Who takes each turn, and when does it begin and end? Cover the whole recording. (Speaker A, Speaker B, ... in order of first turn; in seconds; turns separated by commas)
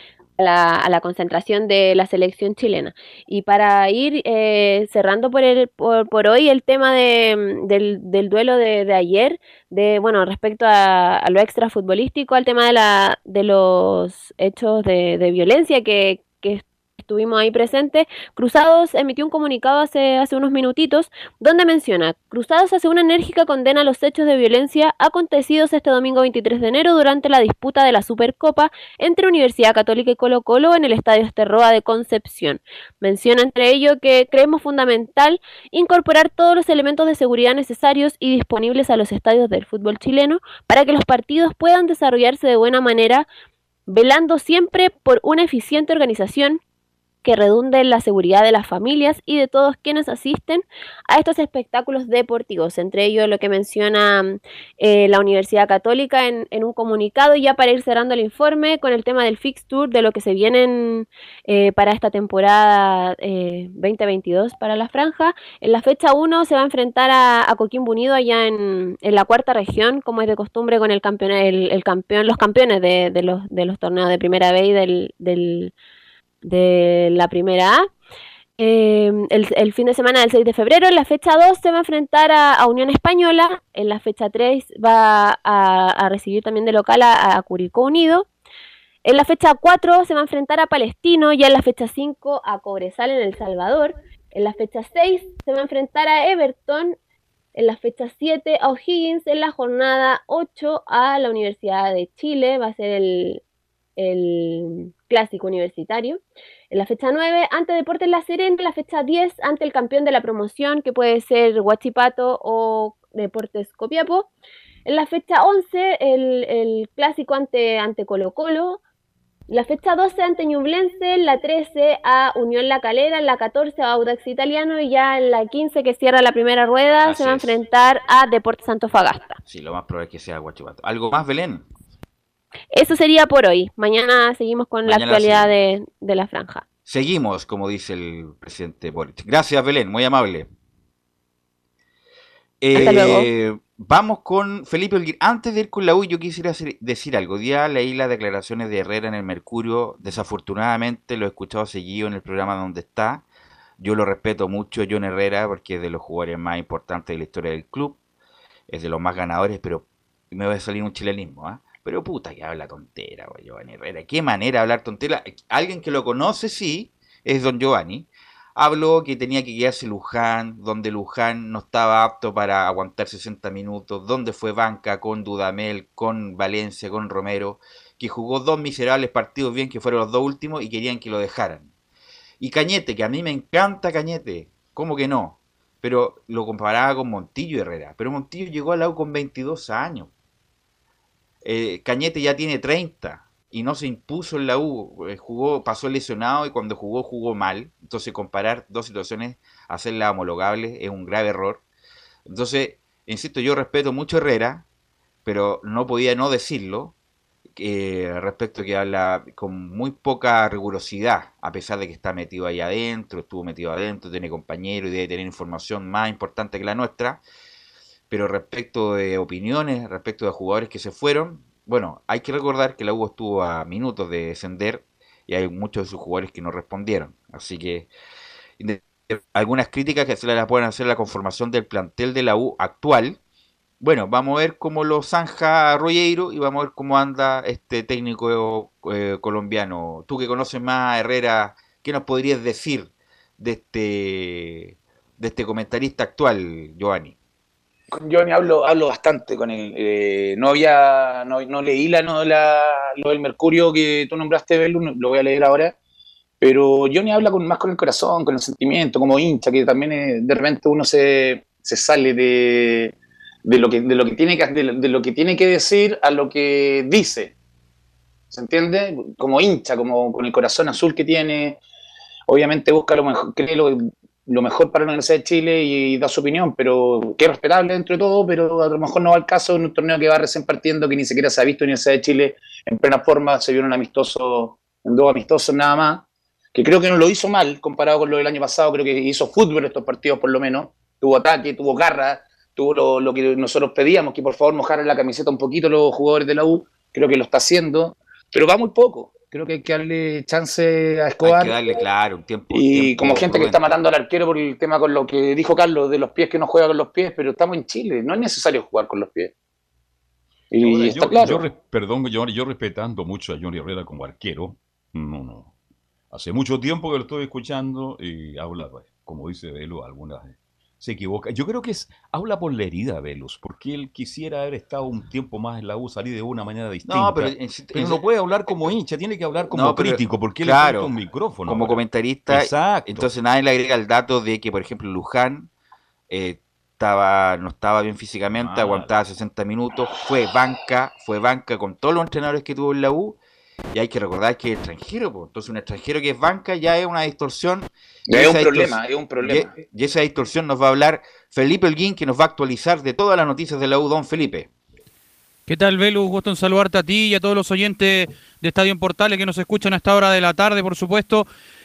Speaker A: 0.4-43.3, Speaker A: 43.9-46.6, Speaker A: 47.2-75.7, Speaker A: 76.4-77.9, Speaker A: 78.6-88.3, Speaker A: 89.0-97.0, Speaker A: 97.5-103.4, Speaker A: 104.0-106.2, Speaker A: 106.7-114.3, Speaker A: 114.8-118.8, Speaker A: 119.5-129.4, Speaker B: 127.0-127.5, Speaker B: 129.4-131.7, Speaker A: 132.7-136.7, Speaker B: 134.8-135.5, Speaker B: 136.8-140.5, Speaker B: 142.6-153.2, Speaker A: 142.7-143.3, Speaker B: 153.8-158.0, Speaker B: 158.7-181.7, Speaker B: 182.4-190.1, Speaker B: 191.4-201.6, Speaker B: 202.3-204.7, Speaker B: 205.2-206.9, Speaker B: 207.6-217.2, Speaker B: 218.1-227.9, Speaker B: 228.6-233.2, Speaker B: 233.8-247.1, Speaker C: 247.9-255.7, Speaker C: 256.4-262.9, Speaker C: 263.4-267.3, Speaker C: 268.3-271.6, Speaker C: 272.3-286.0, Speaker C: 286.5-301.6, Speaker B: 301.2-303.9, Speaker C: 302.5-309.3, Speaker C: 310.5-311.4, Speaker D: 310.6-315.5, Speaker D: 316.1-333.1, Speaker B: 326.9-328.8, Speaker B: 329.5-330.9, Speaker B: 331.4-335.5, Speaker B: 336.1-343.2, Speaker D: 338.3-338.9, Speaker B: 343.7-354.5, Speaker C: 348.1-349.6, Speaker E: 355.5-361.3